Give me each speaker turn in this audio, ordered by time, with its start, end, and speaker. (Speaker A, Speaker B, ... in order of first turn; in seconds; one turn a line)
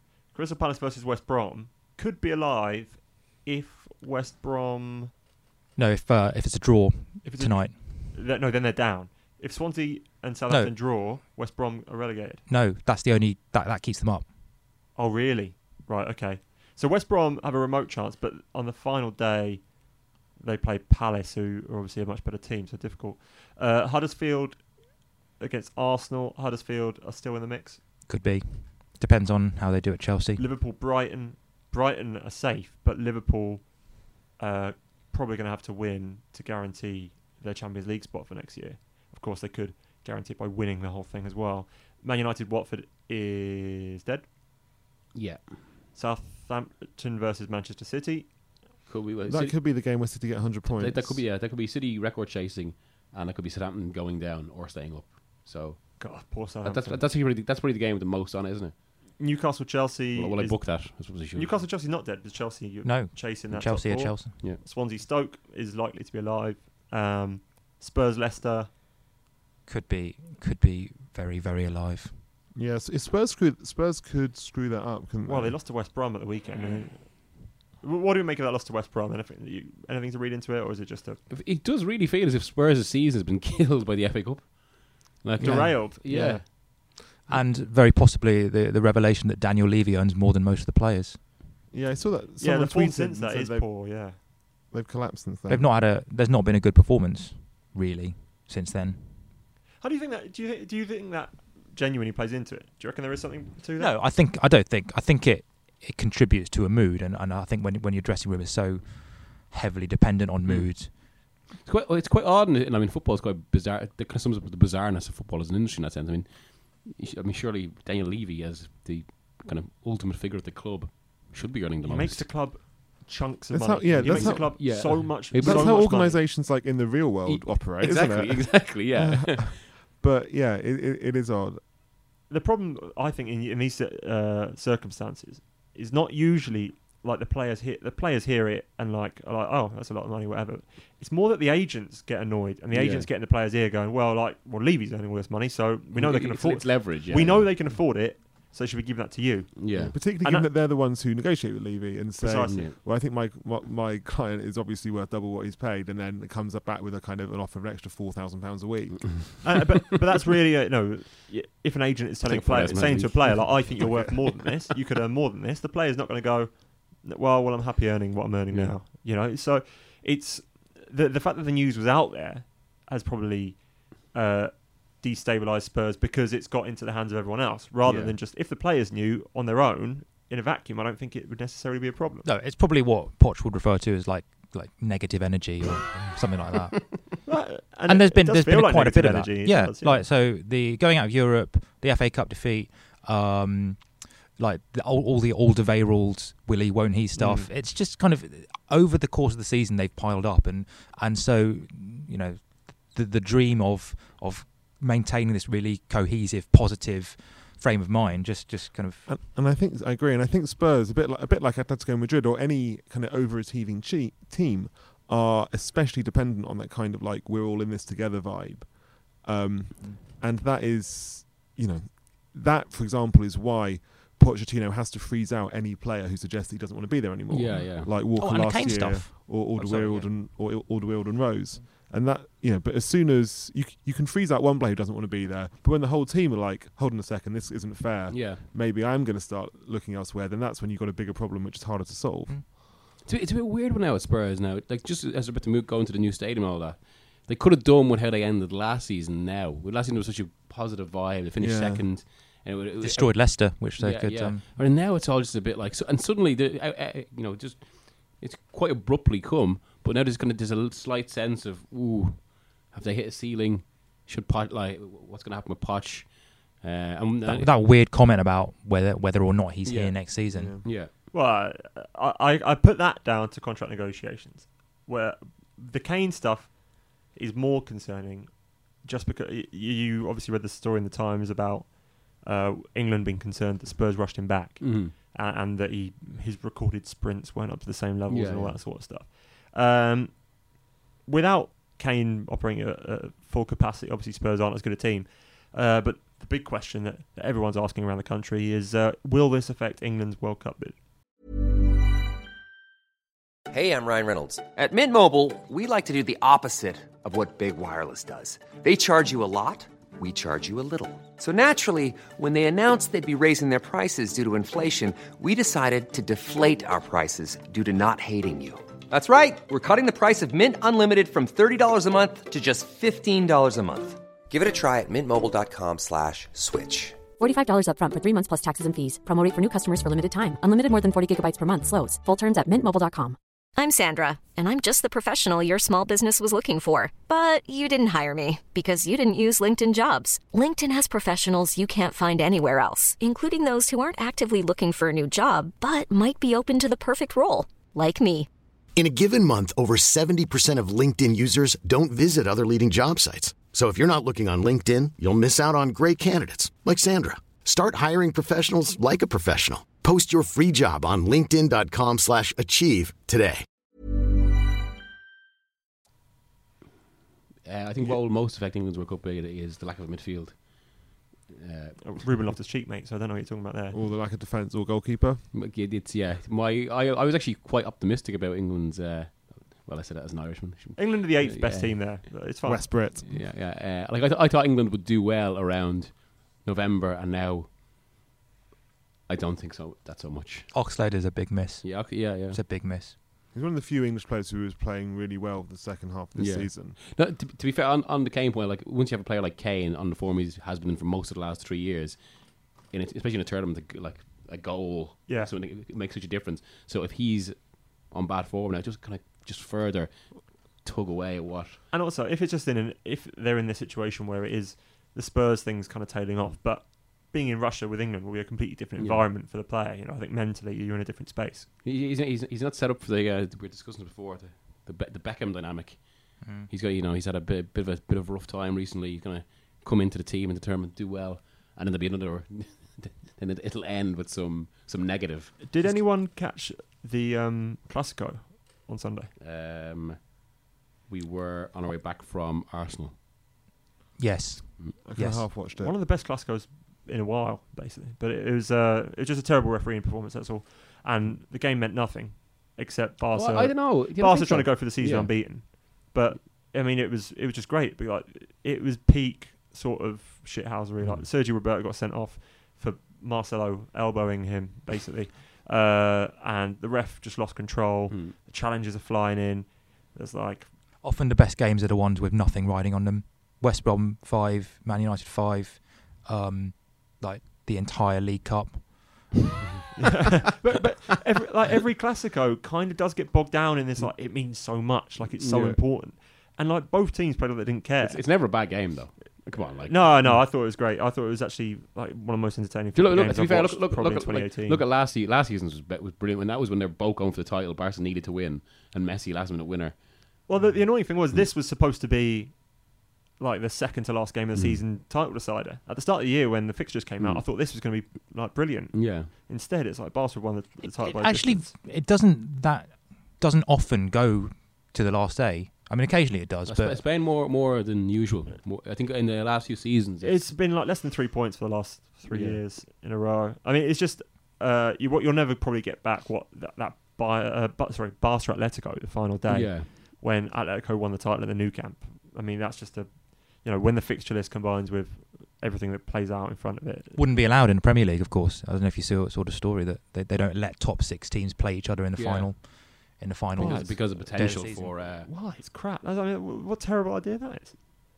Speaker A: 0.3-5.1
Speaker B: 5.8-8.2
Speaker A: 7.2-12.4
Speaker B: 10.5-10.8
Speaker B: 12.5-14.3
Speaker A: 14.9-19.8
Speaker A: 20.3-27.8
Speaker B: 28.1-30.4
Speaker A: 30.4-44.3
Speaker C: 45.1-45.5
Speaker A: 46.0-48.4
Speaker C: 48.9-50.1
Speaker D: 49.3-51.3
Speaker C: 50.7-59.2
Speaker A: 56.0-57.0
Speaker A: 59.2-68.7
Speaker C: 60.1-61.6
Speaker B: 62.8-64.5
Speaker B: 69.7-72.2
Speaker D: 72.5-75.6
Speaker A: 75.3-81.2
Speaker C: 81.3-86.4
Speaker D: 85.4-86.5
Speaker A: 85.4-86.4
Speaker B: 87.3-91.3
Speaker D: 91.7-94.1
Speaker A: 92.4-94.2
Speaker D: 94.7-95.7
Speaker B: 95.5-99.3
Speaker A: 99.8-103.9
Speaker B: 103.8-111.0
Speaker C: 110.5-111.0
Speaker C: 111.5-122.3
Speaker A: 121.8-126.2
Speaker D: 123.5-131.7
Speaker C: 124.0-125.9
Speaker C: 127.3-129.6
Speaker A: 132.3-150.5
Speaker C: 142.7-143.1
Speaker C: 145.9-147.8
Speaker C: 149.6-150.0
Speaker D: 149.7-159.5
Speaker A: 152.2-152.7
Speaker C: 152.5-152.8
Speaker C: 159.1-159.4
Speaker A: 159.4-182.3
Speaker C: 162.2-164.0
Speaker C: 168.5-168.8
Speaker C: 177.8-178.2
Speaker B: 182.2-187.3
Speaker A: 187.2-190.0
Speaker B: 187.9-209.1
Speaker A: 197.2-197.5
Speaker D: 209.1-242.5
Speaker C: 227.3-227.9
Speaker B: 227.5-229.2
Speaker C: 229.6-230.1
Speaker C: 238.1-238.4
Speaker C: 243.0-267.6
Speaker D: 251.4-251.9
Speaker B: 252.8-254.5
Speaker B: 267.2-270.7
Speaker C: 269.6-270.9
Speaker D: 270.3-270.7
Speaker A: 271.1-290.5
Speaker C: 284.6-284.9
Speaker C: 288.1-288.6
Speaker A: 291.1-300.8
Speaker E: 303.5-327.0
Speaker F: 327.2-333.2
Speaker G: 333.6-348.3
Speaker H: 348.8-363.4
Speaker C: 367.4-372.1
Speaker A: 371.8-373.8
Speaker D: 373.7-375.2
Speaker C: 375.3-382.1
Speaker A: 380.8-382.8
Speaker D: 382.4-383.1
Speaker C: 383.0-387.5
Speaker C: 389.1-390.6
Speaker B: 390.5-392.9
Speaker C: 391.6-392.4
Speaker D: 393.3-396.8
Speaker C: 396.1-402.0
Speaker C: 402.6-411.6
Speaker A: 411.7-421.5
Speaker C: 418.8-419.1
Speaker C: 421.6-435.5
Speaker B: 426.2-426.5
Speaker A: 435.4-439.1
Speaker C: 439.2-440.1
Speaker C: 440.9-443.0
Speaker B: 444.0-445.3
Speaker D: 444.8-445.8
Speaker A: 445.4-470.5
Speaker C: 453.1-455.1
Speaker C: 460.8-461.1
Speaker C: 467.9-468.1
Speaker B: 470.8-479.2
Speaker A: 479.8-488.1
Speaker C: 485.2-485.6
Speaker C: 487.8-490.2
Speaker A: 489.6-494.6
Speaker C: 492.8-499.8
Speaker A: 500.3-511.6
Speaker C: 504.4-504.6
Speaker C: 507.0-507.2
Speaker C: 508.7-509.1
Speaker B: 510.7-516.9
Speaker C: 516.5-520.2
Speaker A: 520.0-537.0
Speaker C: 522.1-522.4
Speaker C: 529.3-529.7
Speaker B: 537.0-545.0
Speaker C: 542.0-542.4
Speaker C: 543.4-545.1
Speaker A: 543.4-544.2
Speaker A: 544.9-547.6